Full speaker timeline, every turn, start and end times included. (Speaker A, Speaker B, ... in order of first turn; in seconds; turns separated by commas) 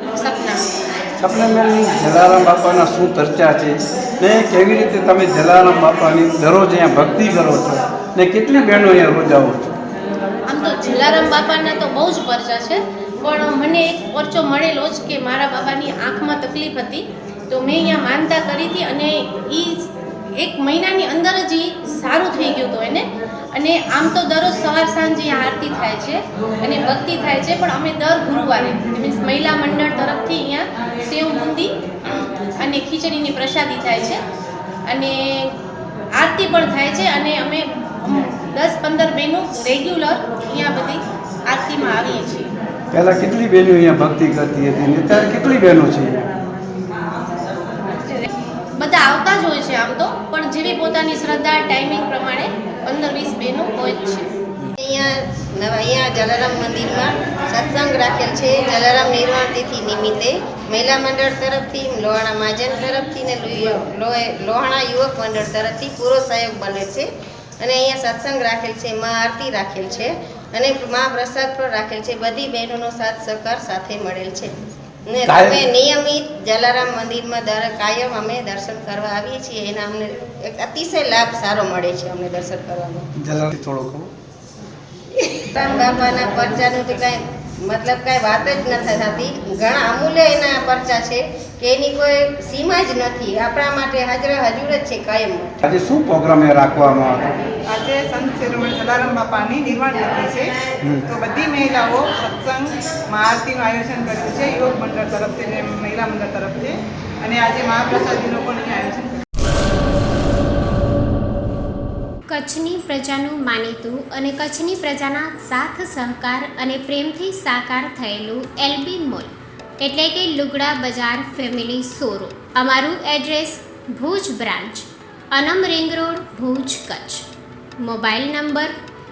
Speaker A: 0.1-0.7, Speaker B: 1.2-9.8, Speaker A: 10.5-34.2, Speaker A: 34.9-35.5, Speaker A: 36.2-42.5, Speaker B: 42.9-46.2, Speaker A: 48.8-54.3, Speaker C: 54.8-67.1, Speaker C: 67.6-74.5, Speaker C: 75.1-83.1, Speaker B: 75.3-75.6, Speaker B: 83.2-84.1, Speaker C: 85.2-95.6, Speaker B: 95.6-97.3, Speaker D: 97.7-100.5, Speaker D: 101.1-109.2, Speaker E: 112.3-127.2, Speaker E: 127.8-128.7